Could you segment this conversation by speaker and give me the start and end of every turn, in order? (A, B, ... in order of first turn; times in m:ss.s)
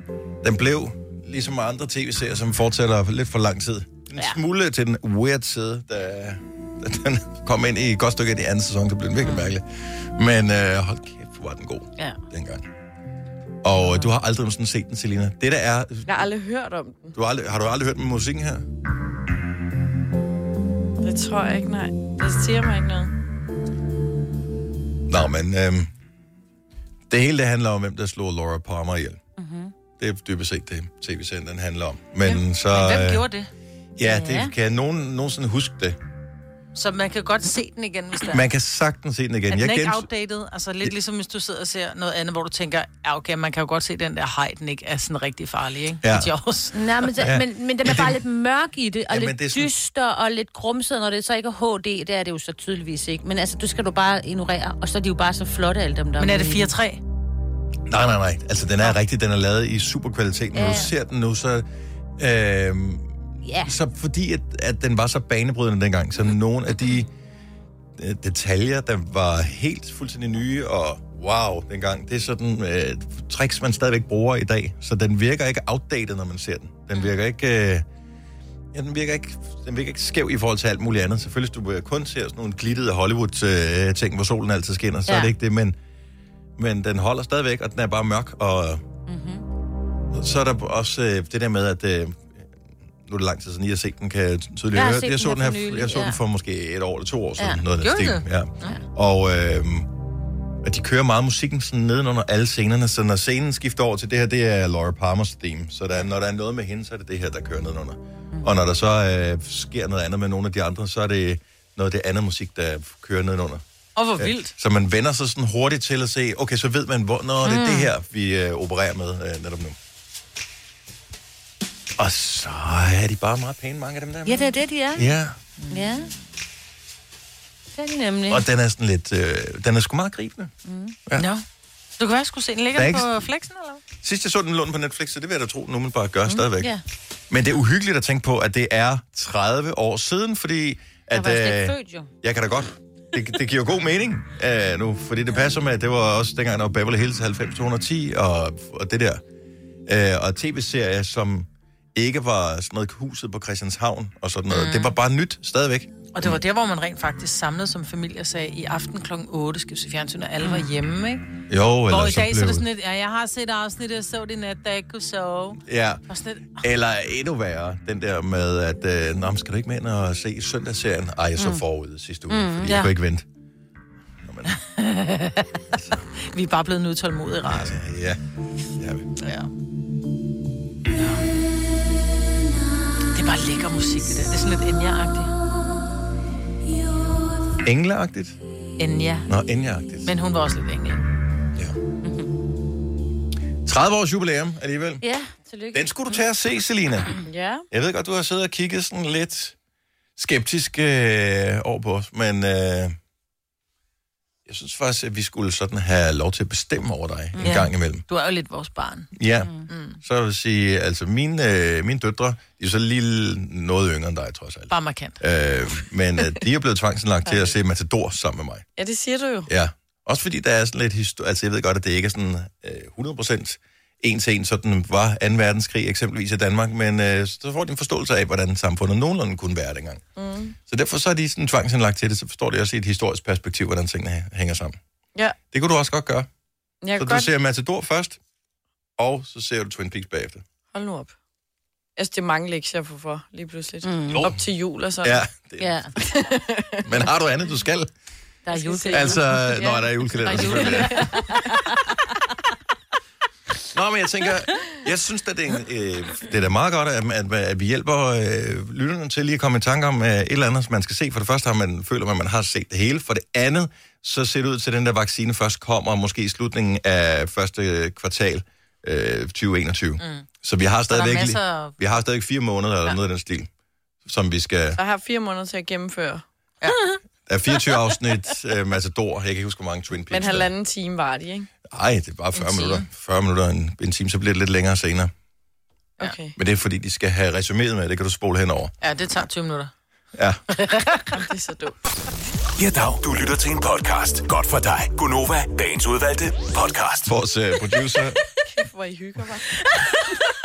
0:00.4-0:12.7 A
0:04.1-0:04.4 B
0:09.2-0:09.5 B
0:13.6-0:16.3 A
0:16.0-0:17.1 C
0:17.1-0:18.7 A
0:21.0-0:23.1 C
0:25.1-0:25.9 A
0:27.1-0:29.2 A
0:29.4-0:29.7 B
0:30.0-0:33.3 A
0:32.3-0:33.5 D
0:34.0-0:36.0 A
0:34.0-0:34.5 B
0:36.7-0:38.4 D
0:38.3-0:40.1 A
0:39.5-0:46.8 D
0:46.0-0:46.3 A
0:46.7-0:56.7 B
0:47.2-0:48.2 A
0:49.1-0:49.7 A
0:56.2-0:57.0 D
0:57.9-1:01.6 A
1:00.5-1:00.9 B
1:02.2-1:07.1 A
1:03.4-1:03.8 B
1:08.0-1:17.8 A
1:18.7-1:25.8 A
1:25.1-1:25.3 B
1:26.6-1:28.8 A
1:29.1-1:29.4 B
1:30.1-1:39.9 A
1:34.7-1:36.2 B
1:37.4-1:37.6 B
1:37.8-1:38.2 D
1:40.6-1:53.6 A
1:54.0-1:54.5 D
1:54.2-1:59.8 A
1:57.4-1:57.9 B
2:02.0-2:05.4 A
2:04.2-2:05.1 B
2:05.6-2:06.1 B
2:07.7-2:08.4 B
2:08.3-2:10.5 A
2:10.6-2:11.0 B
2:11.2-2:11.4 D
2:12.0-2:13.8 D
2:12.7-2:13.2 A
2:14.0-2:16.7 A
2:16.2-2:16.8 B
2:17.3-2:29.2 A
2:21.1-2:22.1 B
2:29.8-2:36.4 A
2:34.5-2:34.9 D
2:36.1-2:41.2 D
2:40.4-2:40.7 B
2:41.5-2:42.6 A
2:41.9-2:46.6 D
2:45.6-2:46.0 A
2:46.6-2:53.2 A
2:52.3-2:52.9 B
2:54.2-2:54.6 A
2:54.5-2:55.5 D
2:56.3-2:57.8 D
2:57.4-2:58.2 A
2:58.8-2:59.1 A
2:59.2-2:59.5 D
3:00.9-3:01.2 D
3:03.1-3:05.3 D
3:07.6-3:08.4 A
3:08.8-3:09.3 D
3:09.3-3:10.1 A
3:10.0-3:11.0 D
3:12.0-3:12.3 B
3:13.6-3:15.0 A
3:15.0-3:16.2 B
3:15.7-3:17.1 A
3:17.2-3:17.6 C
3:17.7-3:19.6 A
3:20.2-3:23.0 A
3:24.4-3:28.0 A
3:27.3-3:27.7 B
3:27.4-3:29.1 D
3:29.1-3:29.5 A
3:29.7-3:30.0 D
3:30.0-3:38.6 A
3:34.7-3:35.2 D
3:37.2-3:37.5 C
3:38.8-3:39.5 C
3:39.5-3:50.0 A
3:50.2-3:50.6 C
3:50.7-3:54.8 A
3:55.5-3:56.3 A
3:56.8-3:57.3 C
3:57.0-3:58.2 A
3:59.0-4:00.4 A
4:00.7-4:01.2 C
4:02.0-4:05.2 C
4:03.8-4:04.3 B
4:04.1-4:04.4 A
4:05.0-4:05.9 A
4:05.6-4:05.9 B
4:06.0-4:06.9 C
4:06.8-4:07.9 A
4:08.5-4:11.7 B
4:08.5-4:09.2 C
4:08.9-4:11.1 A
4:10.3-4:10.7 D
4:10.3-4:10.9 C
4:13.7-4:33.5 A
4:30.0-4:30.3 D
4:30.9-4:31.7 D
4:34.0-4:34.8 A
4:34.8-4:36.2 C
4:36.7-4:37.0 B
4:37.3-4:40.5 A
4:40.1-4:41.5 C
4:41.7-4:45.1 A
4:42.4-4:42.8 D
4:46.0-4:46.3 C
4:46.4-4:48.7 A
4:48.8-4:49.7 D
4:50.1-4:50.4 A
4:50.7-4:51.0 D
4:51.1-4:51.8 C
4:52.6-4:57.1 E
4:57.0-4:58.2 A
4:58.5-4:59.5 C